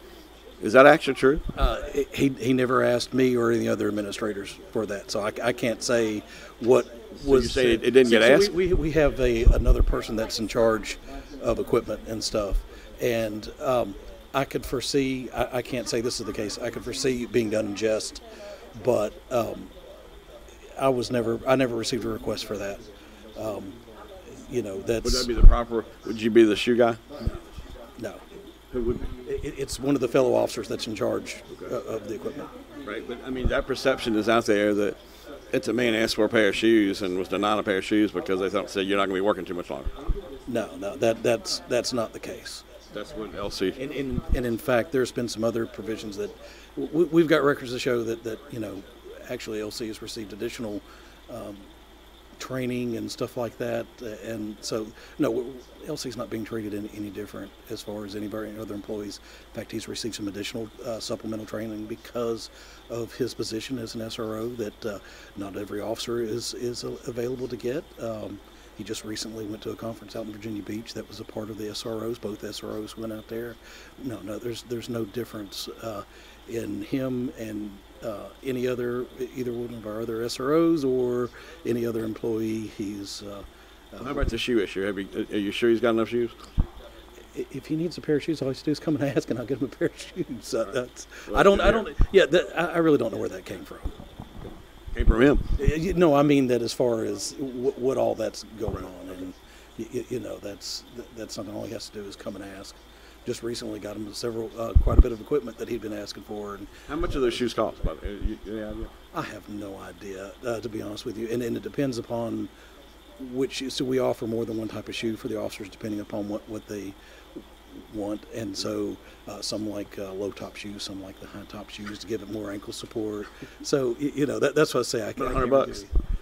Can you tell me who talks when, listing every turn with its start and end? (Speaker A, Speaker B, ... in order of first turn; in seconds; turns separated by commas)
Speaker A: 0.6-1.4, Speaker B: 1.5-18.2, Speaker A: 7.2-8.6, Speaker B: 18.8-19.7, Speaker B: 20.8-22.8, Speaker B: 23.4-23.8, Speaker B: 24.5-25.3, Speaker A: 25.0-27.0, Speaker A: 28.7-29.1, Speaker B: 29.2-32.5, Speaker A: 32.8-35.0, Speaker A: 35.5-39.9, Speaker B: 40.5-42.7, Speaker A: 42.9-43.8, Speaker B: 43.8-51.6, Speaker B: 52.4-84.2, Speaker A: 84.0-86.4, Speaker B: 87.3-94.0, Speaker A: 91.3-91.9, Speaker A: 94.9-95.5, Speaker B: 95.5-107.4, Speaker A: 98.7-99.2, Speaker A: 106.8-108.9, Speaker B: 109.1-112.5, Speaker B: 113.2-125.9, Speaker A: 125.2-125.8